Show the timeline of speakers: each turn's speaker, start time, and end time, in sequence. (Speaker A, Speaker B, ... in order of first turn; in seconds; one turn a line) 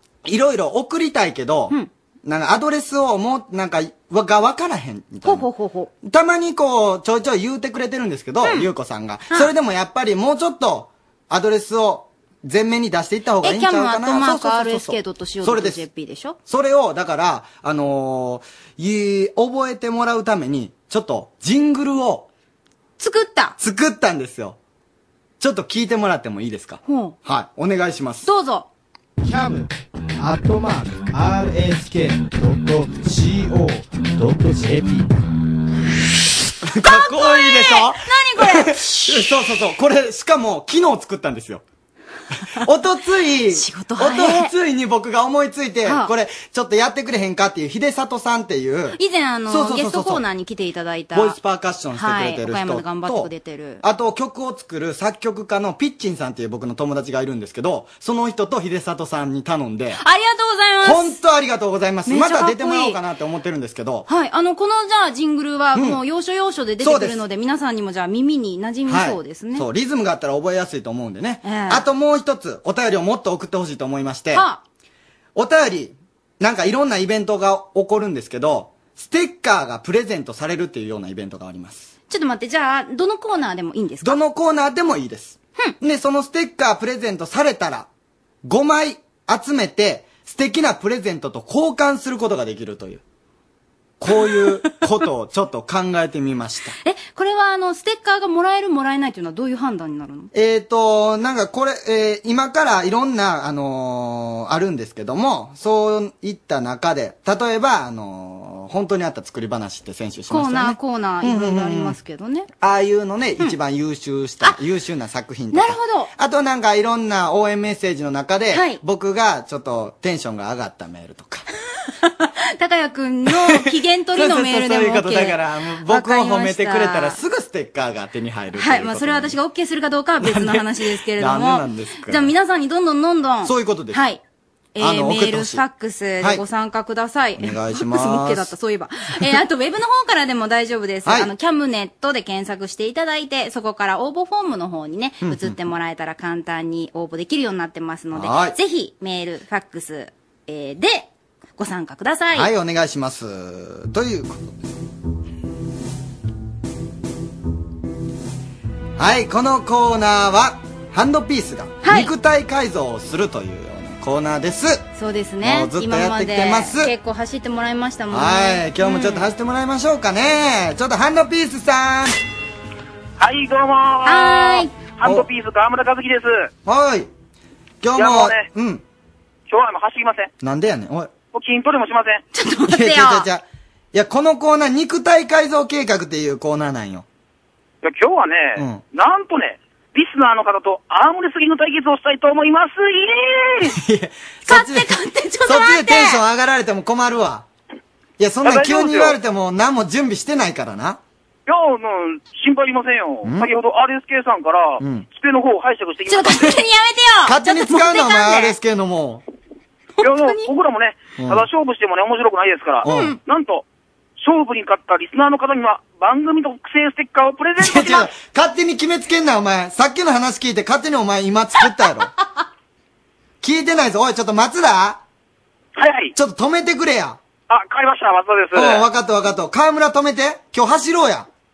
Speaker A: 0.2-5.5
Speaker B: 5.2-5.9
Speaker A: 6.0-15.8
Speaker B: 8.4-8.7
Speaker B: 13.4-16.4
Speaker A: 16.5-22.3
Speaker B: 23.0-23.6
Speaker A: 23.6-24.6
Speaker A: 25.4-28.3
Speaker B: 26.9-27.2
Speaker B: 28.2-28.7
Speaker C: 29.2-35.1
Speaker A: 36.7-41.6
Speaker B: 36.8-39.3
Speaker A: 42.6-50.2
Speaker B: 43.5-44.5
Speaker B: 45.9-46.1
Speaker B: 49.0-51.4
Speaker A: 51.1-53.3
Speaker B: 52.0-53.8
Speaker A: 53.8-60.0
Speaker B: 60.0-61.2
Speaker A: 60.8-64.1
Speaker B: 62.1-63.0
Speaker B: 64.1-69.7
Speaker A: 65.8-66.0
Speaker A: 66.8-67.2
Speaker A: 68.9-74.5
Speaker B: 71.4-71.8
Speaker B: 74.3-74.6
Speaker A: 75.3-81.9
Speaker B: 82.1-84.2
Speaker A: 84.0-87.9
Speaker A: 88.4-93.0
Speaker A: 94.0-96.8
Speaker B: 96.8-100.3
Speaker A: 100.3-112.0
Speaker B: 110.3-112.5
Speaker A: 112.6-121.5
Speaker B: 115.5-116.1
Speaker B: 118.5-118.8
Speaker B: 122.0-127.2
Speaker A: 123.3-129.4
Speaker B: 128.6-134.2
Speaker A: 130.2-132.3
Speaker A: 133.4-134.0
Speaker B: 134.8-152.5
Speaker A: 134.8-135.6
Speaker A: 137.4-138.5
Speaker A: 141.1-141.3
Speaker A: 145.2-145.6
Speaker A: 148.1-148.6
Speaker A: 152.3-154.6
Speaker A: 159.0-164.9
Speaker B: 161.8-162.1
Speaker B: 165.0-169.3
Speaker A: 165.4-166.9
Speaker A: 168.1-172.2
Speaker D: 173.2-176.5
Speaker B: 174.1-174.7
Speaker A: 176.7-177.1
Speaker A: 177.8-178.8
Speaker D: 178.0-178.4
Speaker D: 179.5-180.3
Speaker A: 180.4-181.1
Speaker D: 181.3-182.2
Speaker B: 182.3-183.3
Speaker A: 182.7-187.1
Speaker D: 187.8-193.7
Speaker A: 188.6-188.8
Speaker A: 193.6-197.5
Speaker B: 194.5-196.2
Speaker A: 198.2-201.0
Speaker D: 198.4-199.1
Speaker D: 201.5-206.6
Speaker A: 203.2-203.5
Speaker A: 204.8-205.1
Speaker B: 206.1-208.6
Speaker A: 207.2-209.2
Speaker D: 210.0-213.6
Speaker B: 210.0-210.5
Speaker A: 211.2-211.5
Speaker A: 212.8-213.2
Speaker B: 212.9-213.2
Speaker D: 214.2-218.1
Speaker A: 217.6-222.1
Speaker A: 223.4-225.0
Speaker D: 225.8-226.1
Speaker A: 226.2-227.2
Speaker D: 227.5-228.8
Speaker A: 228.5-231.3